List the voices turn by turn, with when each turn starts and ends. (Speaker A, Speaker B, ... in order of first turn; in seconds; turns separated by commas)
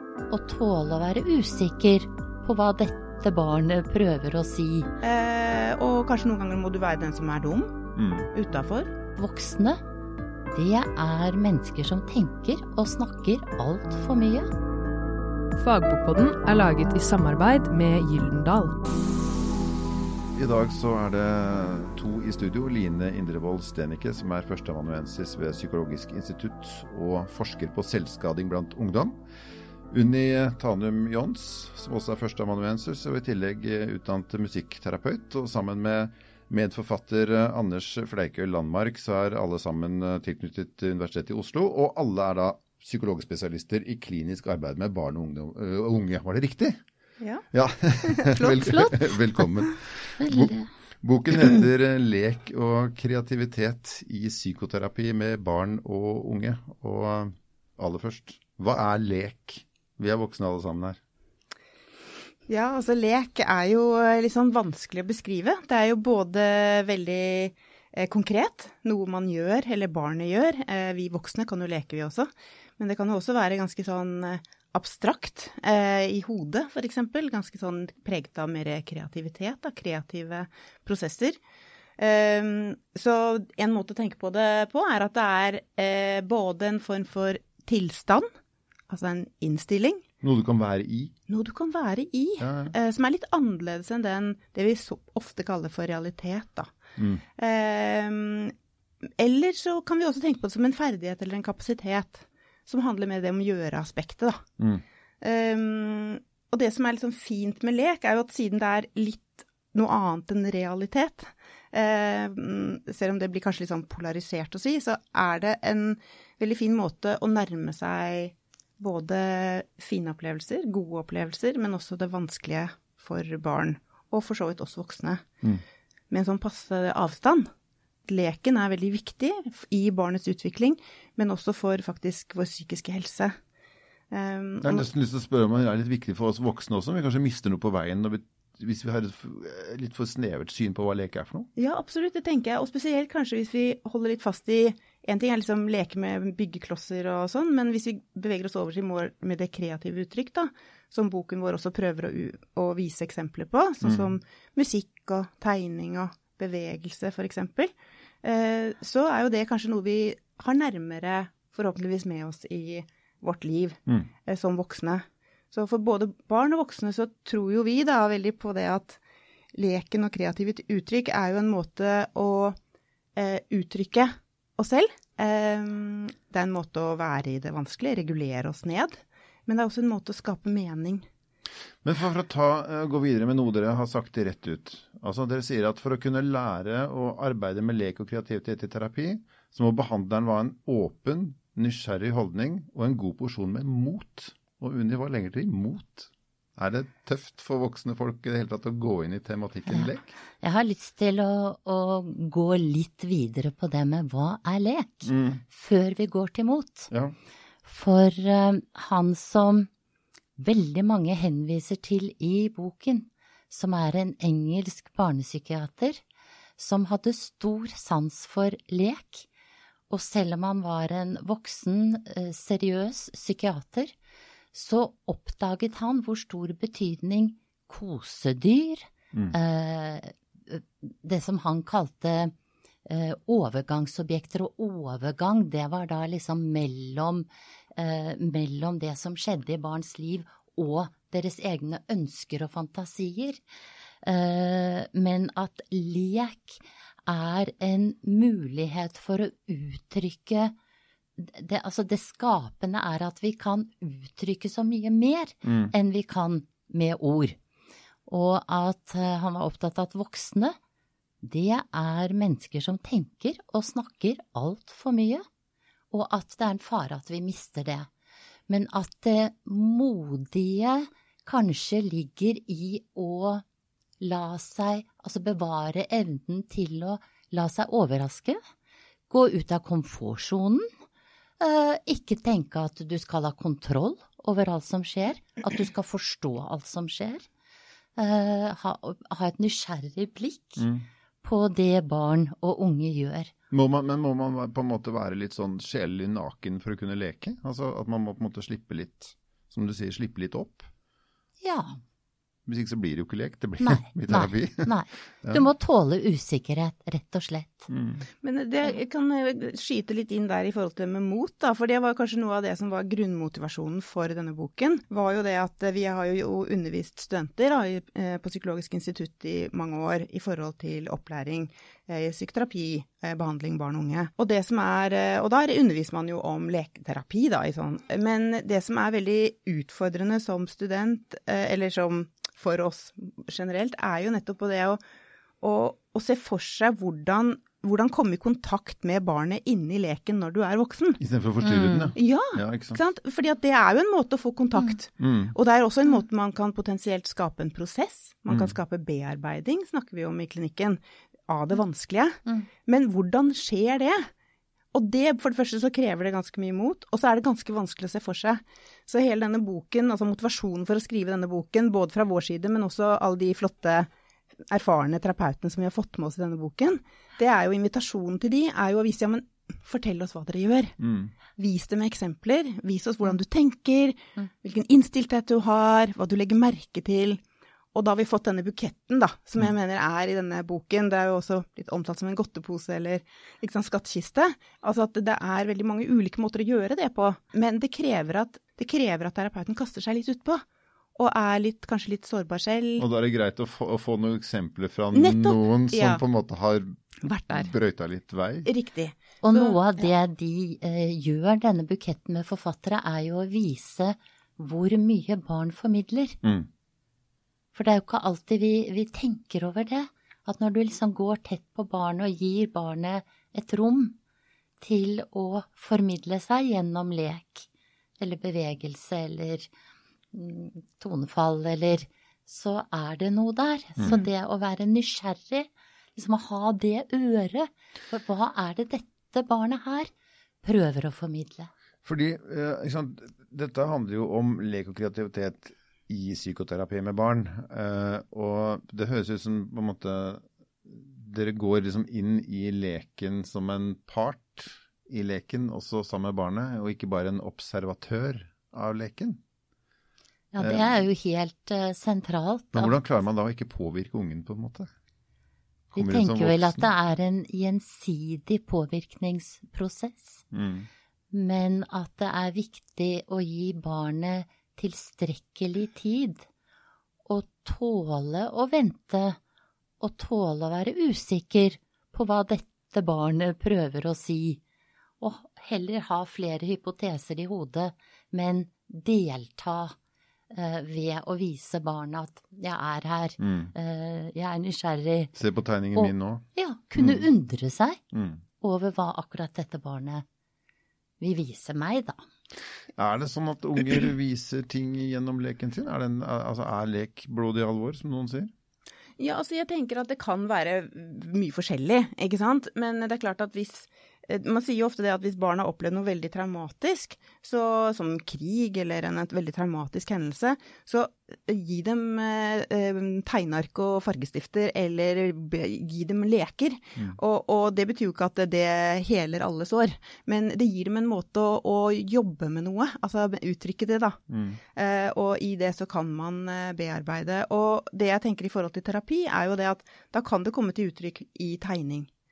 Speaker A: 0.3-4.9, Speaker B: 5.0-7.8, Speaker C: 8.0-8.3, Speaker B: 8.3-8.9, Speaker A: 9.2-9.8, Speaker A: 10.5-14.5, Speaker D: 15.6-18.8, Speaker C: 20.4-29.2, Speaker C: 29.9-46.8, Speaker B: 47.2-47.5, Speaker C: 47.5-61.0, Speaker B: 48.0-48.8, Speaker A: 48.6-49.0, Speaker A: 50.2-50.7, Speaker B: 62.5-81.4, Speaker B: 82.0-88.3, Speaker B: 88.9-90.0, Speaker C: 90.2-91.1, Speaker B: 91.3-96.7, Speaker C: 92.4-92.7, Speaker C: 97.0-97.2, Speaker B: 97.4-98.5, Speaker B: 99.2-104.5, Speaker C: 104.6-104.8, Speaker B: 105.2-125.3, Speaker B: 126.1-127.5, Speaker B: 128.1-133.4, Speaker B: 134.1-134.9, Speaker C: 134.6-141.5, Speaker B: 141.6-169.0, Speaker B: 169.5-172.6, Speaker B: 173.2-181.1, Speaker C: 181.8-200.1, Speaker A: 199.7-206.9, Speaker C: 205.1-205.4, Speaker A: 207.6-209.7, Speaker A: 210.4-216.0, Speaker A: 216.6-219.3, Speaker A: 219.9-223.9, Speaker A: 224.5-232.3, Speaker A: 232.9-243.4, Speaker A: 244.0-250.6, Speaker A: 251.2-257.4, Speaker C: 255.4-255.7, Speaker A: 258.1-260.6, Speaker A: 261.2-265.2, Speaker A: 265.9-267.9, Speaker A: 268.5-273.4, Speaker A: 274.0-278.4, Speaker A: 279.1-280.7, Speaker A: 281.4-287.3, Speaker A: 288.0-290.6, Speaker C: 290.6-290.9, Speaker A: 291.2-293.3, Speaker C: 293.5-300.7, Speaker A: 301.4-301.8, Speaker C: 302.5-304.7, Speaker A: 303.6-307.7, Speaker C: 307.7-308.1, Speaker B: 308.2-334.8, Speaker B: 335.4-341.0, Speaker C: 341.0-342.8, Speaker A: 341.4-341.9, Speaker B: 341.9-354.1, Speaker C: 345.0-345.3, Speaker C: 348.3-348.6, Speaker B: 354.7-363.9, Speaker B: 364.5-370.8, Speaker C: 370.8-371.1, Speaker B: 371.4-377.2, Speaker B: 377.7-390.4, Speaker B: 391.0-392.9, Speaker C: 392.8-398.5, Speaker B: 394.9-396.0, Speaker B: 397.0-397.5, Speaker B: 398.5-399.9, Speaker A: 399.2-406.2, Speaker C: 406.2-406.5, Speaker A: 407.5-414.0, Speaker A: 414.6-417.5, Speaker A: 418.0-419.5, Speaker A: 420.1-429.9, Speaker A: 430.4-431.5, Speaker C: 431.8-449.2, Speaker A: 450.3-452.8, Speaker C: 450.4-450.8, Speaker C: 452.5-454.7, Speaker C: 455.7-456.7, Speaker A: 455.8-460.2, Speaker C: 460.3-460.7, Speaker A: 461.1-466.3, Speaker A: 467.1-469.2, Speaker A: 469.8-474.4, Speaker A: 475.0-479.8, Speaker A: 480.3-485.1, Speaker C: 483.2-483.5, Speaker C: 485.1-486.3, Speaker A: 485.7-487.8, Speaker C: 486.8-487.1, Speaker C: 487.9-488.2, Speaker A: 488.4-490.1, Speaker A: 491.0-492.0, Speaker C: 492.8-498.3, Speaker B: 499.0-524.0, Speaker C: 524.1-524.4, Speaker B: 524.5-531.9